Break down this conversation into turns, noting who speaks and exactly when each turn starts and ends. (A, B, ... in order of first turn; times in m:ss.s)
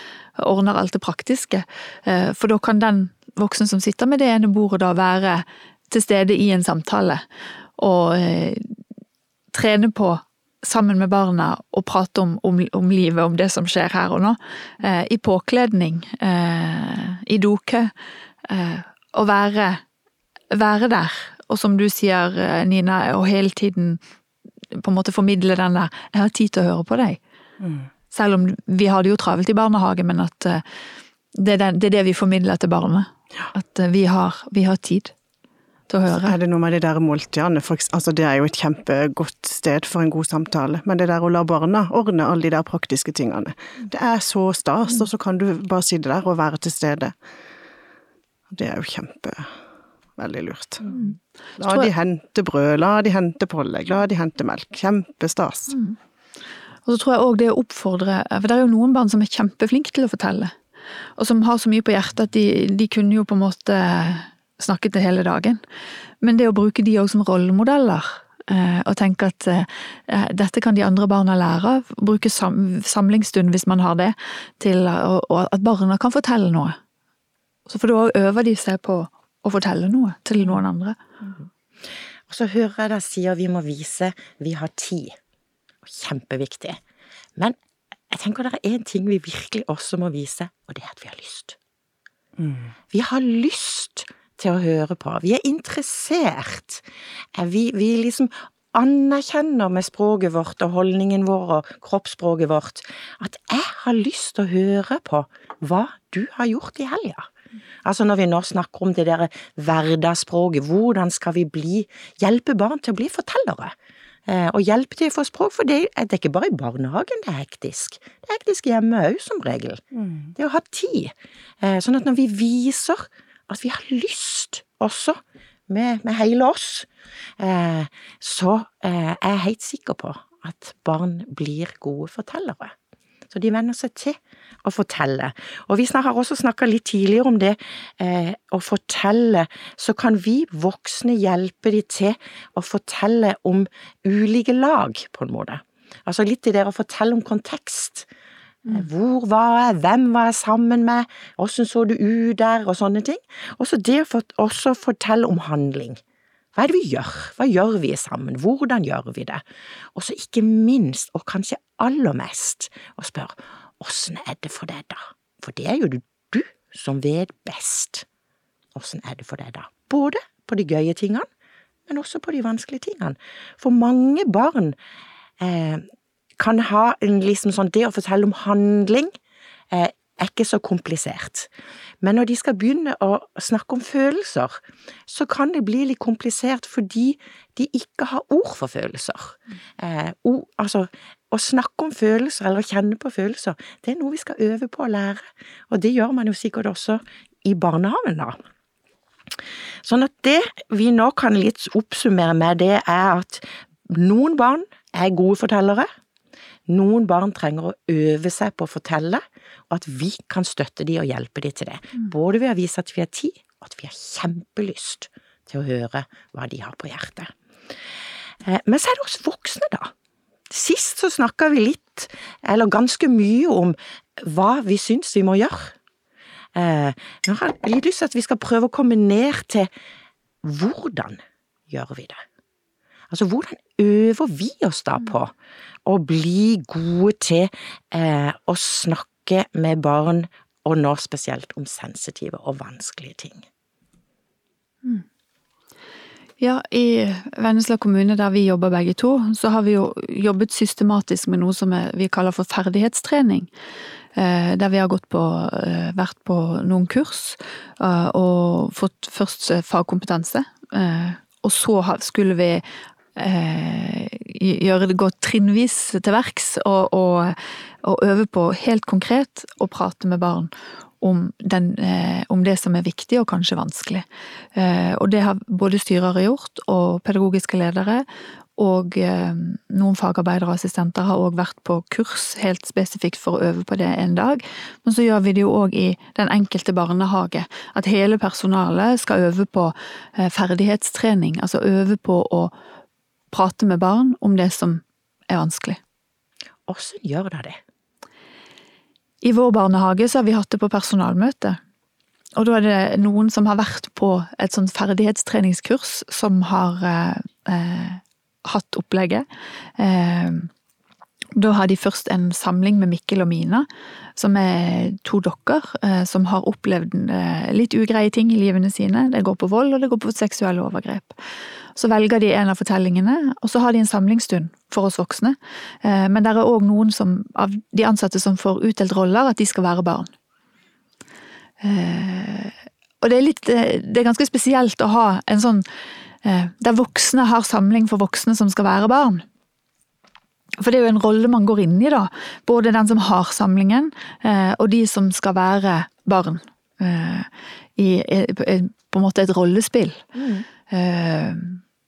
0:00.4-0:07.2 A
0:07.8-0:08.7 A
0:09.5-0:17.9 A
0:18.4-0:19.8 A
0:20.5-0:24.0 A
0:24.7-0:27.2 A
0:27.6-0:27.8 B
0:28.1-0:30.6 A
0:31.3-0:35.1 A
0:35.9-0:36.4 A
0:36.1-0:47.1 B
0:48.5-0:49.5 B
0:50.2-0:50.9 B
0:50.9-0:51.9 A
0:51.6-0:55.8 B
0:55.7-0:56.0 A
0:56.8-1:00.5 A
1:01.2-1:05.6 A
1:06.2-1:16.8 A
1:17.7-1:21.0 A
1:22.3-1:25.1 C
1:25.8-1:26.8 C
1:28.1-1:31.6 C
1:32.4-1:32.7 B
1:32.9-1:36.8 C
1:37.4-1:47.2 C
1:47.8-1:53.7 C
1:54.3-1:59.8 C
2:00.0-2:00.3 B
2:00.4-2:05.2 C
2:05.7-2:06.9 C
2:07.4-2:12.7 C
2:13.3-2:28.1 C
2:28.6-2:36.0 C
2:36.6-2:39.4 C
2:39.9-2:48.0 C
2:48.7-2:51.2 C
2:51.9-2:54.8 C
2:55.4-2:55.8 C
2:56.4-2:59.1 C
2:59.7-3:01.5 C
3:02.0-3:18.3 C
3:19.8-3:25.9 C
3:26.7-3:37.3 C
3:38.4-3:39.9 C
3:40.5-3:45.7 C
3:46.5-3:49.7 C
3:50.4-3:52.2 C
3:53.1-3:55.3 C
3:55.8-4:03.4 C
4:06.4-4:13.5 A
4:14.1-4:22.6 A
4:23.1-4:38.0 A
4:38.6-4:52.5 A
4:53.3-4:55.8 A
4:56.7-4:57.6 C
4:59.2-5:01.6 A
5:02.4-5:09.2 A
5:09.8-5:10.5 A
5:11.3-5:21.1 A
5:21.7-5:30.1 A
5:31.6-5:35.6 A
5:36.2-5:39.2 A
5:40.6-5:50.0 A
5:50.1-5:50.4 C
5:50.7-5:51.6 A